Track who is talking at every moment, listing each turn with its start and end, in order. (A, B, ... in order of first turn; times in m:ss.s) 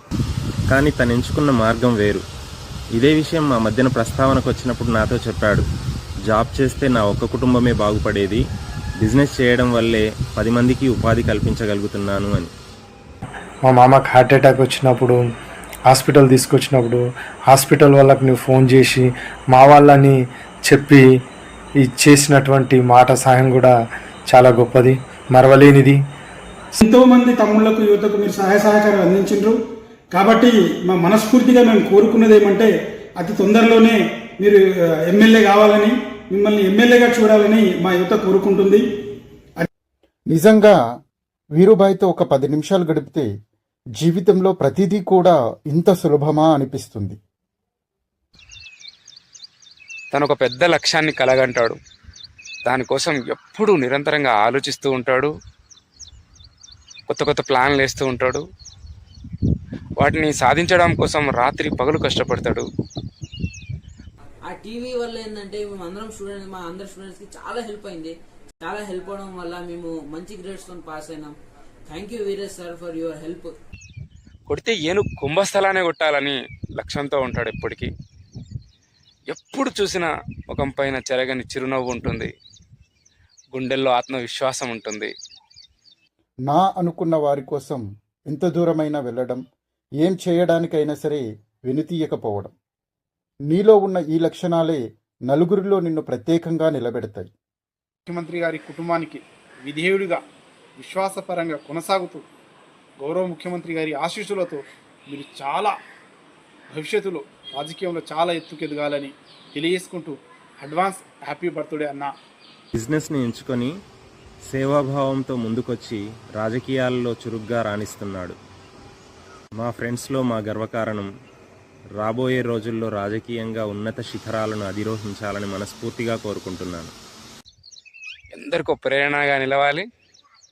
0:00.7-0:02.2 A
0:02.9-0:05.6 A
0:06.3-0:08.4 A
0:09.0-0:12.5 A
0:13.7-0:15.2 B
0:15.9-0:20.1 B
0:20.7-0:21.0 B
0:21.9-0:23.7 B
0:24.3-0:26.0 B
0:26.8-0:29.6 C
0:30.1-0:38.8 C
0:40.3-0:40.8 D
0:41.6-0:43.3 D
0:44.0-0:47.2 D
0:50.1-0:51.8 E
0:52.6-0:55.3 E
0:57.1-0:58.4 E
1:00.0-1:02.6 E
1:04.5-1:11.3 F
1:11.9-1:13.6 F
1:14.5-1:17.9 E
1:19.3-1:22.3 E
1:23.5-1:25.1 E
1:26.5-1:29.4 D
1:30.0-1:32.5 D
1:33.5-1:37.3 D
1:38.0-1:40.2 G
1:40.8-1:42.2 G
1:43.0-1:45.8 G
1:46.7-1:52.1 G
1:52.7-1:53.7 A
1:54.5-1:58.4 A
1:59.6-2:01.1 A
2:02.0-2:06.9 A
2:08.3-2:09.8 E